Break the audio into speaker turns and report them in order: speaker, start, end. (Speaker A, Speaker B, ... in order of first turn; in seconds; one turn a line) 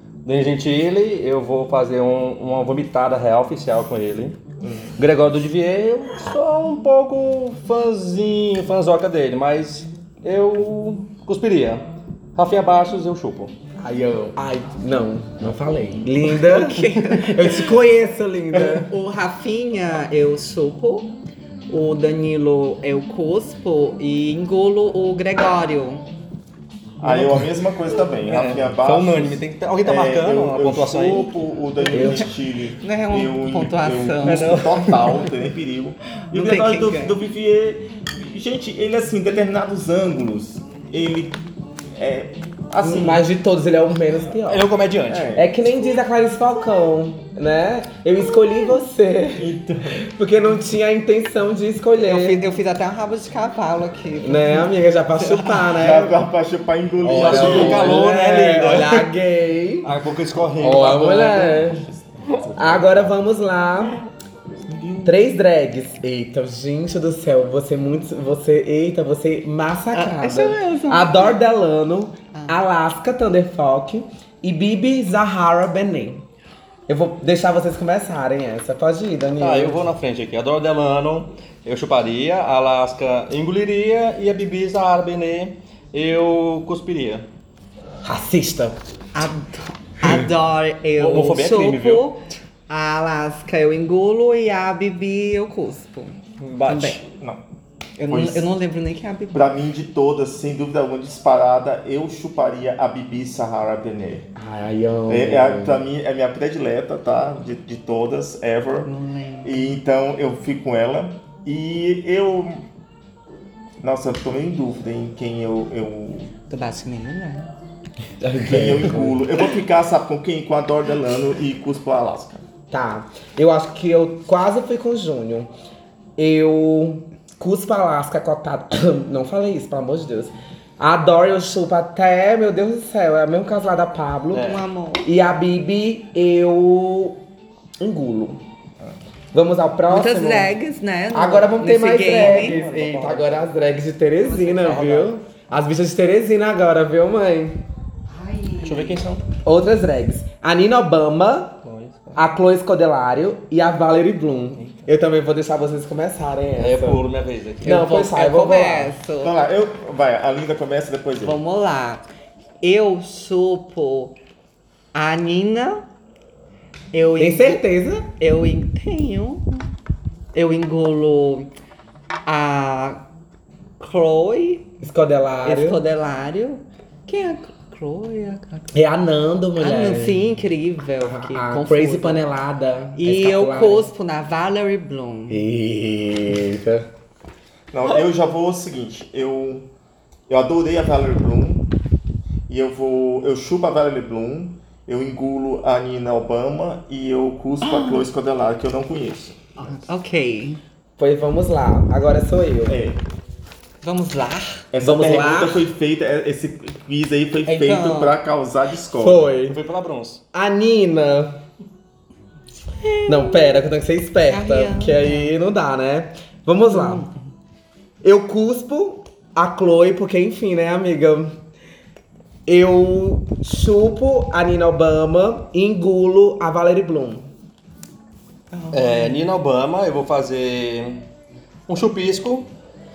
Speaker A: 0.2-4.4
Speaker B: 4.6-5.0
Speaker A: 5.0-11.8
Speaker A: 12.3-13.5
Speaker C: 13.8-18.9
Speaker D: 16.3-17.7
Speaker D: 18.7-21.1
Speaker D: 21.7-26.1
Speaker B: 27.0-41.4
Speaker A: 27.0-27.5
Speaker A: 28.3-31.3
Speaker C: 31.9-32.3
Speaker D: 32.8-34.5
Speaker A: 34.2-35.3
Speaker D: 36.3-37.1
Speaker B: 42.0-43.3
Speaker C: 42.8-44.7
Speaker A: 44.5-45.3
Speaker B: 45.1-45.6
Speaker C: 45.3-49.5
Speaker B: 49.4-50.0
Speaker C: 50.0-52.5
Speaker D: 52.0-55.7
Speaker C: 54.2-56.2
Speaker B: 55.7-58.1
Speaker A: 57.0-59.1
Speaker C: 57.0-59.9
Speaker A: 59.8-61.6
Speaker C: 60.6-61.9
Speaker B: 60.9-63.2
Speaker C: 62.6-64.0
Speaker B: 64.6-65.2
Speaker C: 65.0-76.2
Speaker D: 69.9-71.4
Speaker D: 72.3-72.6
Speaker C: 76.9-79.8
Speaker A: 79.4-87.2
Speaker C: 88.0-88.8
Speaker D: 89.1-97.0
Speaker A: 91.0-92.1
Speaker A: 96.4-97.0
Speaker B: 97.0-97.4
Speaker D: 98.0-99.5
Speaker B: 98.1-98.5
Speaker B: 99.3-104.3
Speaker C: 104.4-105.8
Speaker B: 105.1-108.9
Speaker D: 108.8-109.7
Speaker B: 109.4-112.7
Speaker B: 113.8-116.3
Speaker D: 116.5-117.5
Speaker C: 118.2-119.2
Speaker B: 118.5-122.5
Speaker C: 122.7-125.5
Speaker C: 126.2-137.2
Speaker A: 134.3-134.6
Speaker D: 134.3-135.1
Speaker C: 137.8-138.4
Speaker C: 139.3-140.5
Speaker D: 139.9-142.6
Speaker C: 141.1-147.6
Speaker A: 142.0-143.5
Speaker D: 144.2-145.1
Speaker D: 148.1-149.0
Speaker A: 148.6-149.2
Speaker C: 149.4-151.6
Speaker A: 151.6-152.2
Speaker C: 152.2-157.0
Speaker A: 156.6-157.8
Speaker C: 157.6-158.9
Speaker D: 157.7-159.4
Speaker B: 159.2-161.4
Speaker D: 161.2-162.0
Speaker D: 162.6-164.1
Speaker D: 164.9-165.8
Speaker D: 166.9-167.6
Speaker C: 167.2-168.1
Speaker D: 168.2-169.7
Speaker D: 170.3-171.5
Speaker D: 172.3-173.0
Speaker D: 173.8-174.7
Speaker C: 174.8-175.8
Speaker D: 175.4-178.8
Speaker C: 178.7-180.3
Speaker D: 179.6-182.2
Speaker C: 181.0-183.9
Speaker D: 183.0-185.4
Speaker C: 185.3-186.9
Speaker B: 187.7-189.7
Speaker B: 190.3-191.7
Speaker B: 192.5-199.8
Speaker D: 197.6-198.1
Speaker D: 199.6-200.6
Speaker C: 201.0-202.8
Speaker B: 202.7-203.0
Speaker D: 203.8-204.7
Speaker B: 204.7-209.3
Speaker C: 204.8-205.6
Speaker D: 207.5-208.2
Speaker C: 209.0-209.6
Speaker A: 209.4-210.2
Speaker C: 210.3-211.4
Speaker D: 212.8-213.6
Speaker C: 213.1-217.1
Speaker D: 214.3-215.3
Speaker D: 216.7-217.2
Speaker C: 218.0-221.3
Speaker C: 222.5-227.3
Speaker D: 228.5-229.2
Speaker A: 228.7-231.0
Speaker A: 231.7-232.5